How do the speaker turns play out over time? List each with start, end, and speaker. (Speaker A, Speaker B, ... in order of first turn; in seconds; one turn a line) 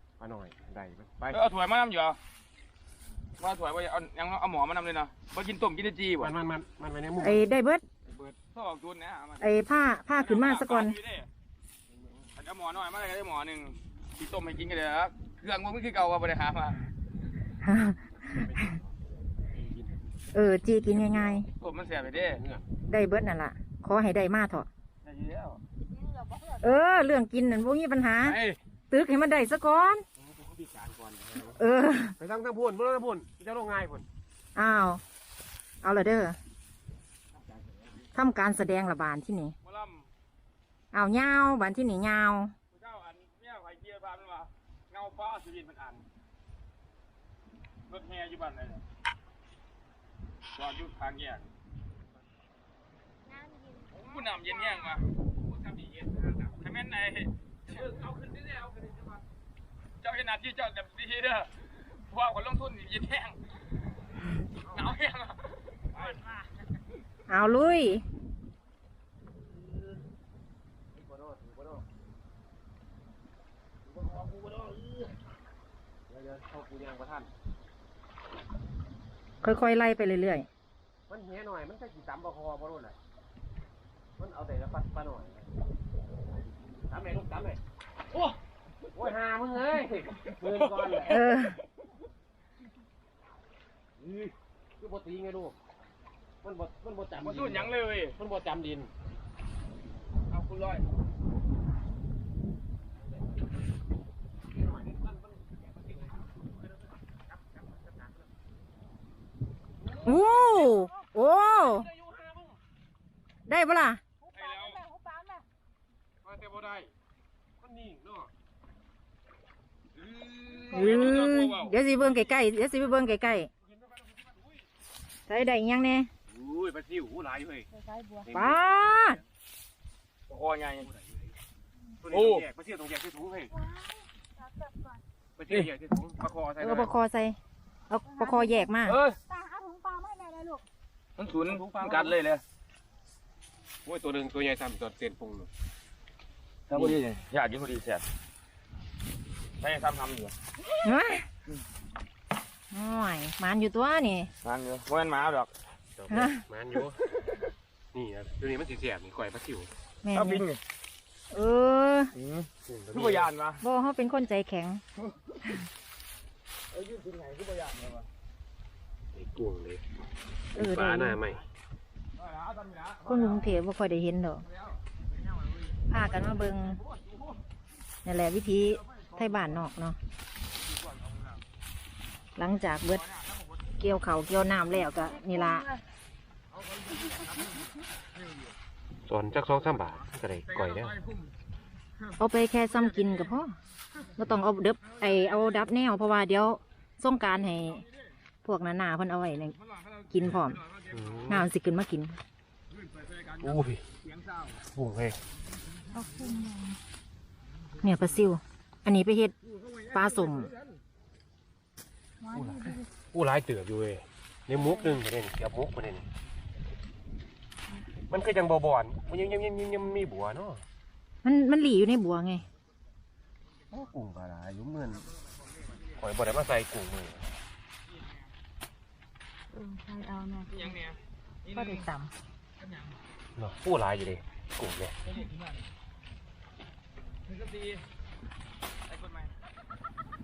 Speaker A: 0.2-1.4
Speaker B: 1.3-2.2
Speaker B: 3.4-6.3
Speaker A: 6.2-7.4
Speaker C: 7.2-7.8
Speaker B: 8.1-9.6
Speaker C: 9.4-10.9
Speaker B: 10.2-11.3
Speaker A: 11.9-12.3
Speaker B: 12.4-16.8
Speaker C: 17.6-18.4
Speaker A: 18.2-18.9
Speaker A: 19.5-20.0
Speaker C: 20.3-21.4
Speaker A: 20.9-21.4
Speaker B: 21.6-22.4
Speaker A: 22.1-22.6
Speaker C: 22.9-24.7
Speaker B: 25.0-25.6
Speaker C: 26.6-28.4
Speaker A: 28.2-28.6
Speaker C: 28.9-30.0
Speaker A: 30.2-31.6
Speaker C: 31.6-32.1
Speaker A: 32.2-34.0
Speaker C: 34.5-35.0
Speaker C: 35.8-36.4
Speaker A: 37.5-37.8
Speaker C: 38.1-39.5
Speaker B: 39.6-40.1
Speaker C: 40.9-42.5
Speaker B: 42.7-46.0
Speaker B: 47.9-48.8
Speaker B: 50.5-51.4
Speaker D: 53.3-54.2
Speaker B: 53.9-55.1
Speaker A: 55.5-56.5
Speaker B: 56.5-57.9
Speaker A: 57.7-59.2
Speaker B: 60.0-63.4
Speaker B: 64.6-66.0
Speaker C: 67.3-68.0
Speaker A: 69.5-70.0
Speaker A: 70.9-71.8
Speaker A: 73.9-75.1
Speaker A: 76.1-77.3
Speaker C: 79.4-80.5
Speaker A: 81.1-83.0
Speaker A: 84.2-85.5
Speaker A: 86.9-87.6
Speaker A: 88.9-91.2
Speaker B: 90.5-91.2
Speaker C: 91.0-91.6
Speaker A: 94.8-95.6
Speaker A: 96.4-98.9
Speaker B: 97.2-98.2
Speaker B: 100.3-100.9
Speaker A: 104.5-106.2
Speaker A: 107.3-108.2
Speaker C: 110.0-111.9
Speaker A: 111.7-112.6
Speaker C: 113.5-114.0
Speaker B: 114.3-114.8
Speaker D: 114.3-115.4
Speaker A: 116.2-116.9
Speaker A: 117.6-118.3
Speaker B: 120.0-121.8
Speaker C: 120.7-123.5
Speaker A: 123.6-124.6
Speaker C: 125.3-126.1
Speaker A: 126.3-127.7
Speaker D: 127.8-128.3
Speaker A: 128.2-128.6
Speaker C: 128.3-129.2
Speaker B: 130.3-130.9
Speaker A: 130.8-131.3
Speaker A: 132.0-133.5
Speaker B: 132.1-132.4
Speaker D: 133.7-133.9
Speaker D: 134.6-135.0
Speaker A: 135.4-137.0
Speaker C: 136.6-137.4
Speaker C: 137.9-139.0
Speaker D: 138.2-138.4
Speaker B: 138.8-139.2
Speaker D: 139.3-140.6
Speaker B: 141.2-142.4
Speaker A: 141.4-142.2
Speaker A: 143.8-145.5
Speaker B: 146.7-148.0
Speaker A: 146.7-147.0
Speaker B: 149.6-150.3
Speaker C: 150.8-151.3
Speaker C: 152.7-154.3
Speaker B: 154.4-155.5
Speaker A: 156.0-157.0
Speaker C: 156.1-156.4
Speaker A: 157.9-159.7
Speaker C: 160.0-160.4
Speaker B: 160.1-160.6
Speaker C: 161.3-162.1
Speaker B: 162.1-163.6
Speaker A: 162.7-163.3
Speaker C: 163.6-164.8
Speaker B: 166.7-168.1
Speaker A: 169.1-169.8
Speaker C: 170.5-171.2
Speaker A: 170.5-171.4
Speaker B: 172.2-173.4
Speaker C: 173.1-174.4
Speaker B: 174.5-174.8
Speaker C: 175.9-176.8
Speaker C: 178.0-180.0
Speaker B: 180.7-181.4
Speaker C: 182.3-183.0
Speaker B: 182.9-183.5
Speaker C: 183.8-185.7
Speaker B: 186.7-187.6
Speaker B: 188.2-188.5
Speaker A: 189.1-190.9
Speaker B: 190.5-191.3
Speaker C: 192.2-193.5
Speaker C: 194.2-197.8
Speaker C: 198.4-199.5
Speaker B: 199.7-201.2
Speaker C: 200.1-200.6
Speaker A: 200.9-201.5
Speaker C: 201.3-202.2
Speaker B: 202.7-204.6
Speaker A: 203.4-203.8
Speaker A: 204.7-205.2
Speaker D: 206.0-206.8
Speaker C: 207.8-209.3
Speaker C: 209.9-210.5
Speaker D: 212.2-212.8
Speaker A: 212.3-216.1
Speaker A: 218.1-220.6
Speaker C: 221.2-222.4
Speaker A: 223.7-225.1
Speaker A: 225.9-227.4
Speaker B: 227.9-228.3
Speaker D: 229.5-230.6
Speaker B: 230.5-231.9
Speaker D: 231.7-232.1
Speaker B: 232.6-233.0
Speaker A: 233.4-234.9
Speaker B: 237.2-237.8
Speaker B: 238.9-239.3